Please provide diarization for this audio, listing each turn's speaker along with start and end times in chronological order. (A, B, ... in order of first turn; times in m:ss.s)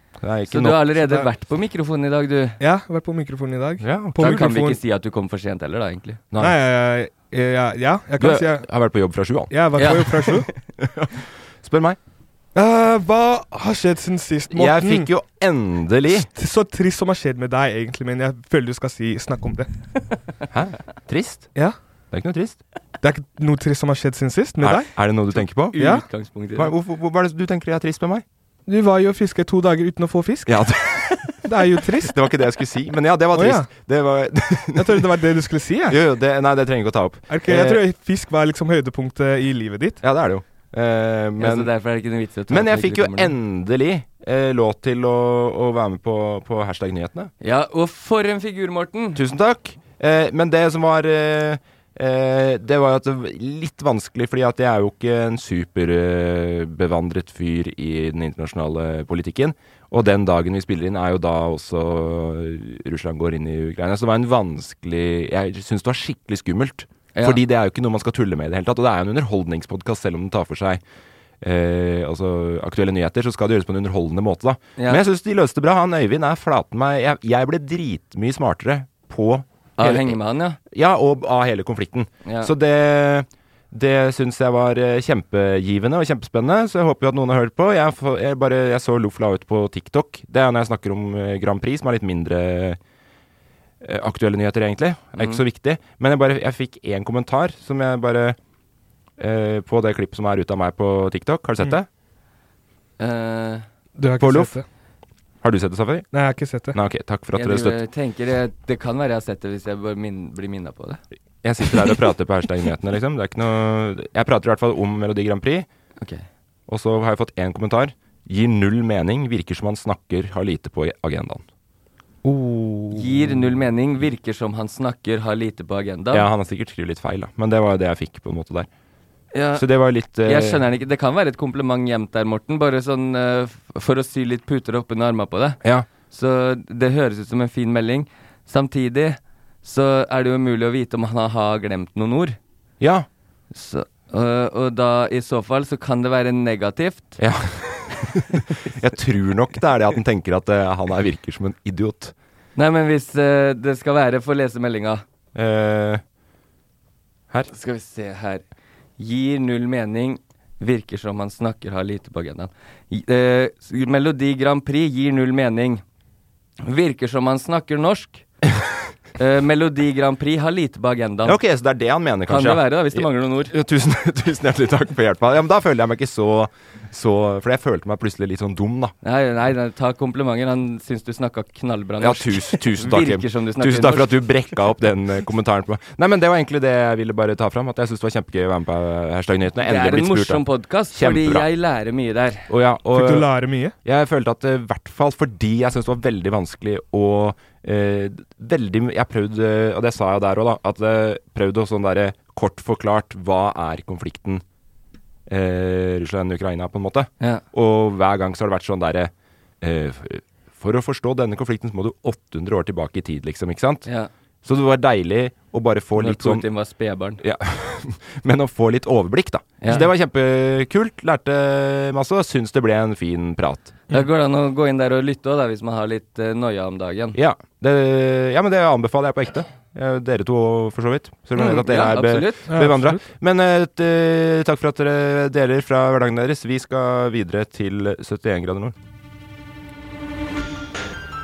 0:00.2-0:00.9 A
0:00.5-0:02.6 B
0:01.0-0:01.3 C
0:02.6-0:04.8 C
0:03.8-0:04.5 A
0:04.2-0:06.2 B
0:06.3-0:06.6 A
0:06.4-0:08.7 C
0:08.2-0:10.1 A
0:09.5-0:10.5 C
0:09.8-0:10.5 B
0:10.8-0:12.0 A
0:12.5-0:15.1 C
0:14.5-0:16.3 A
0:16.2-0:19.7 C
0:20.5-0:21.5 A
0:22.1-0:22.6 A
0:23.0-0:24.9 C
0:24.6-0:25.8 A
0:25.7-0:26.7 B
0:25.7-0:26.0 C
0:26.5-0:28.2 A
0:28.7-0:30.5 C
0:30.5-0:31.4 A
0:31.4-0:32.2 C
0:32.0-0:35.2 A
0:33.3-0:33.7 C
0:34.8-0:36.0 C
0:35.9-0:37.8 A
0:37.3-0:40.0 C
0:40.0-0:41.7 A
0:41.4-0:43.4 B
0:42.5-0:47.3 A
0:47.4-0:49.2 B
0:49.1-1:10.8 A
1:07.1-1:07.4 B
1:11.4-1:20.2 A
1:14.8-1:15.0 B
1:19.8-1:20.6 B
1:20.7-1:32.8 A
1:22.2-1:22.5 B
1:33.8-1:38.4 A
1:35.2-1:35.4 B
1:39.2-1:41.9 A
1:43.0-1:43.6 B
1:44.0-1:44.6 C
1:44.2-1:44.5 A
1:45.4-1:46.1 A
1:46.1-1:46.8 C
1:46.7-1:47.8 A
1:47.3-1:51.0 B
1:51.4-1:55.7 A
1:56.0-1:56.2 B
1:56.7-2:01.4 A
2:02.2-2:03.4 C
2:02.9-2:06.3 B
2:06.1-2:08.7 A
2:09.3-2:15.6 B
2:09.6-2:10.6 A
2:15.6-2:15.9 A
2:16.1-2:22.4 B
2:22.8-2:23.1 A
2:23.5-2:27.2 B
2:27.2-2:32.1 A
2:32.6-2:35.0 B
2:35.3-2:36.0 A
2:37.5-2:38.4 B
2:39.0-2:45.8 B
2:46.6-2:48.2 B
2:49.2-2:51.4 B
2:51.2-2:58.9 A
2:52.3-2:53.5 B
2:59.0-3:04.2 B
3:02.0-3:11.5 A
3:09.6-3:12.5 B
3:12.5-3:13.3 A
3:12.9-3:13.7 C
3:13.8-3:24.4 A
3:25.3-3:33.9 A
3:34.4-3:36.4 A
3:36.0-3:37.2 B
3:37.2-3:43.8 A
3:39.6-3:39.9 B
3:43.9-3:47.2 B
3:47.1-3:58.8 A
3:51.4-3:52.4 B
3:52.5-3:53.0 C